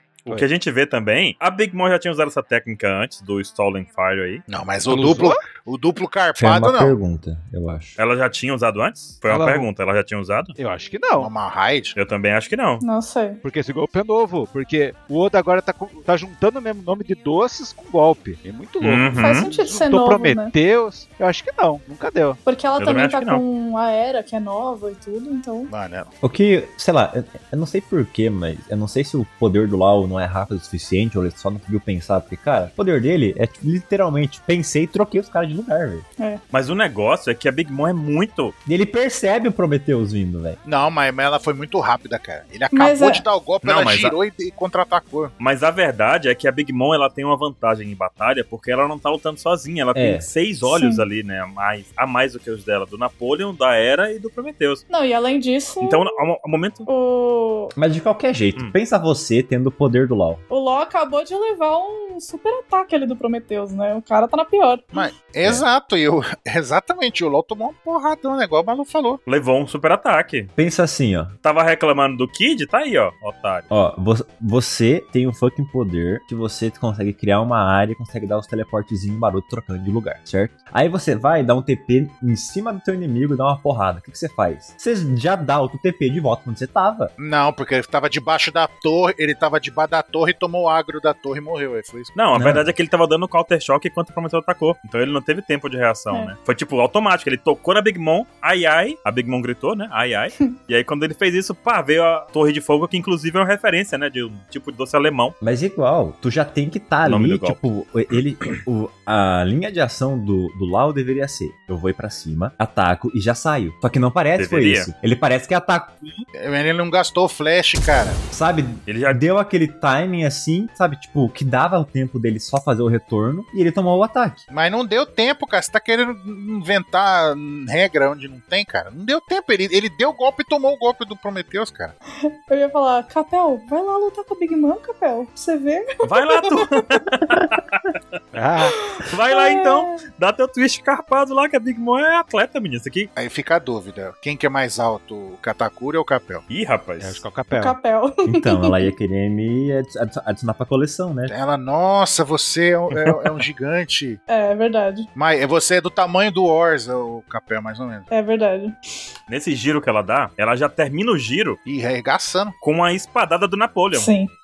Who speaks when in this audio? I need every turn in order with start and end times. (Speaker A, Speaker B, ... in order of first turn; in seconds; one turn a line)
Speaker A: 0.3-4.4
Speaker B: 4.5-7.0
Speaker C: 4.9-5.5
Speaker D: 6.4-8.0
Speaker A: 8.0-10.6
Speaker C: 9.3-9.7
Speaker C: 10.6-11.3
Speaker B: 11.2-12.0
Speaker A: 12.0-12.8
Speaker E: 12.8-13.4
Speaker C: 13.4-22.4
Speaker A: 18.8-19.5
Speaker E: 19.1-20.5
Speaker E: 22.5-25.7
Speaker A: 22.8-23.4
Speaker B: 25.7-26.1
Speaker D: 26.2-36.1
Speaker A: 36.5-38.5
Speaker D: 38.7-40.6
Speaker B: 40.6-45.3
Speaker E: 42.7-43.2
Speaker A: 43.6-44.2
Speaker A: 45.4-54.8
Speaker D: 49.9-50.3
Speaker E: 50.7-51.0
Speaker E: 54.9-56.1
Speaker A: 55.8-56.9
Speaker E: 56.9-57.7
Speaker D: 57.8-60.4
Speaker E: 60.5-64.9
Speaker B: 64.9-69.2
Speaker A: 69.3-70.5
Speaker D: 70.6-71.3
Speaker A: 71.4-73.7
Speaker D: 73.7-87.1
Speaker B: 87.2-92.1
Speaker A: 92.2-105.4
Speaker D: 92.3-92.7
Speaker D: 105.4-116.0
Speaker A: 107.0-107.6
Speaker A: 114.4-114.9
Speaker B: 116.4-118.2
Speaker D: 118.3-124.4
Speaker A: 118.9-119.2
Speaker B: 124.5-131.9
Speaker E: 132.2-136.8
Speaker A: 136.0-137.9
Speaker C: 138.3-138.7
Speaker E: 138.7-140.0
Speaker A: 139.1-143.1
Speaker B: 143.2-146.4
Speaker A: 146.5-147.2
Speaker C: 147.0-147.8
Speaker E: 147.5-148.9
Speaker D: 148.3-151.3
Speaker B: 151.3-154.2
Speaker E: 154.3-155.1
Speaker B: 155.2-158.1
Speaker E: 158.1-158.8
Speaker A: 159.3-161.6
Speaker B: 161.7-162.6
Speaker A: 162.6-164.1
Speaker E: 163.9-164.3